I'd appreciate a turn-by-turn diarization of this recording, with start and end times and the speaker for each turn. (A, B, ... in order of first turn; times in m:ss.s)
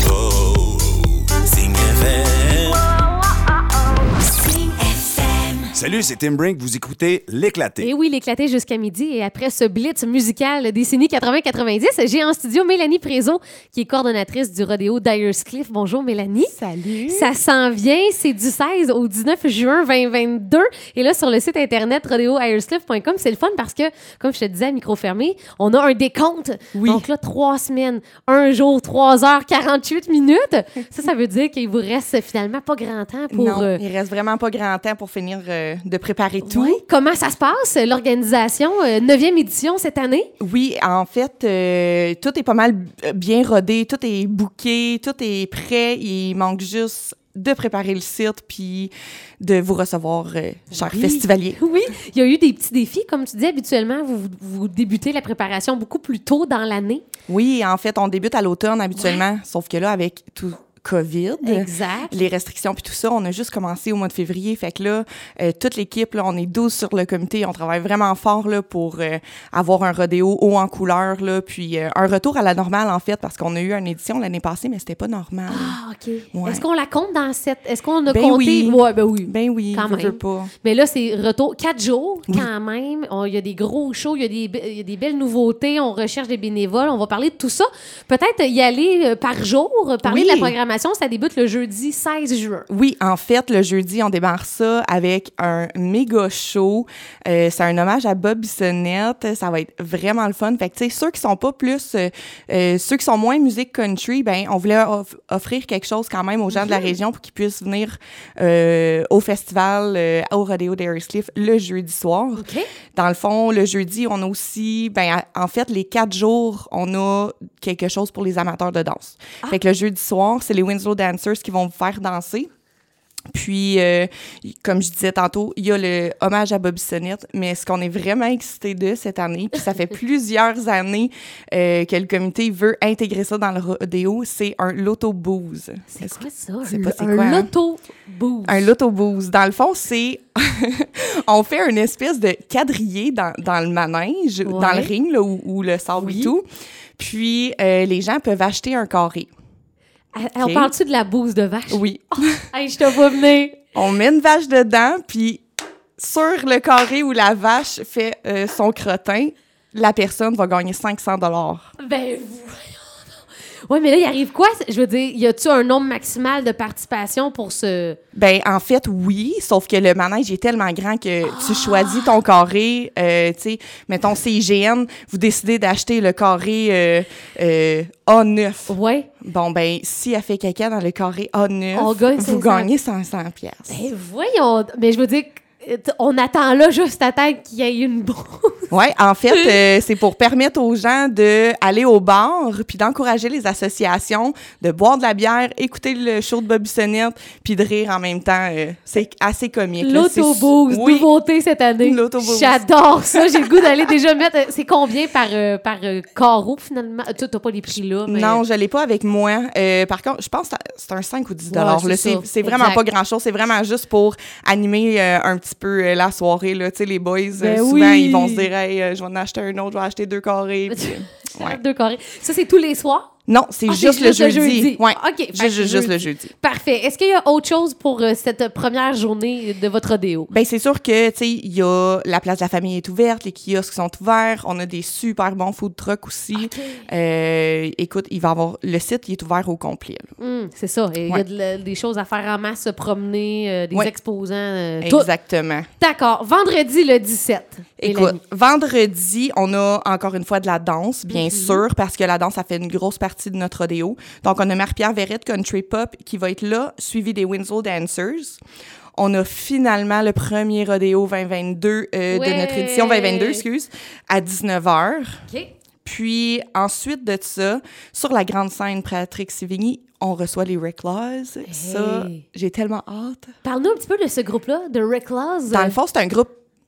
0:00.2-0:02.8 A
0:04.6-0:05.4 B
0:05.7-0:07.9 A
0:07.8-0:16.6 B
0:16.5-0:17.3 C
0:17.1-0:33.8 B
0:26.7-0:27.1 C
0:33.3-0:36.8 C
0:36.4-0:40.3 B
0:40.4-0:51.6 C
0:50.7-0:57.0 B
0:57.3-1:15.8 C
1:01.4-1:02.3 B
1:15.5-1:32.7 B
1:16.3-1:16.6 C
1:18.1-1:20.5 C
1:30.0-1:30.6 C
1:32.7-2:02.5 C
1:46.5-1:46.9 B
1:52.4-1:52.7 B
2:03.3-2:17.5 C
2:15.9-2:18.7 B
2:18.5-2:26.4 C
2:24.4-2:24.9 B
2:26.0-2:26.3 B
2:27.0-2:29.3 C
2:30.1-2:31.9 B
2:30.4-2:30.7 C
2:31.7-2:32.4 C
2:32.4-2:33.6 B
2:33.7-2:35.4 C
2:36.0-2:41.6 C
2:41.8-2:48.0 B
2:48.1-3:03.8 C
2:51.2-2:52.2 B
2:58.7-2:59.1 B
3:01.7-3:02.7 B
3:03.7-3:08.7 B
3:08.7-3:21.1 C
3:09.3-3:09.6 B
3:19.8-3:28.4 B
3:21.8-3:23.9 C
3:28.1-3:41.6 C
3:31.5-3:32.8 B
3:37.4-3:38.5 B
3:40.7-3:43.1 B
3:43.3-3:46.3 C
3:43.7-3:50.3 B
3:50.3-4:00.1 C
3:56.3-3:56.9 B
4:00.2-4:05.1 B
4:04.8-4:05.7 C
4:05.8-4:08.2 B
4:07.8-4:18.4 C
4:11.1-4:11.6 B
4:19.0-4:25.2 C
4:22.1-4:23.4 B
4:25.8-4:33.3 C
4:31.5-4:32.2 B
4:33.4-4:35.8 B
4:35.5-4:36.3 C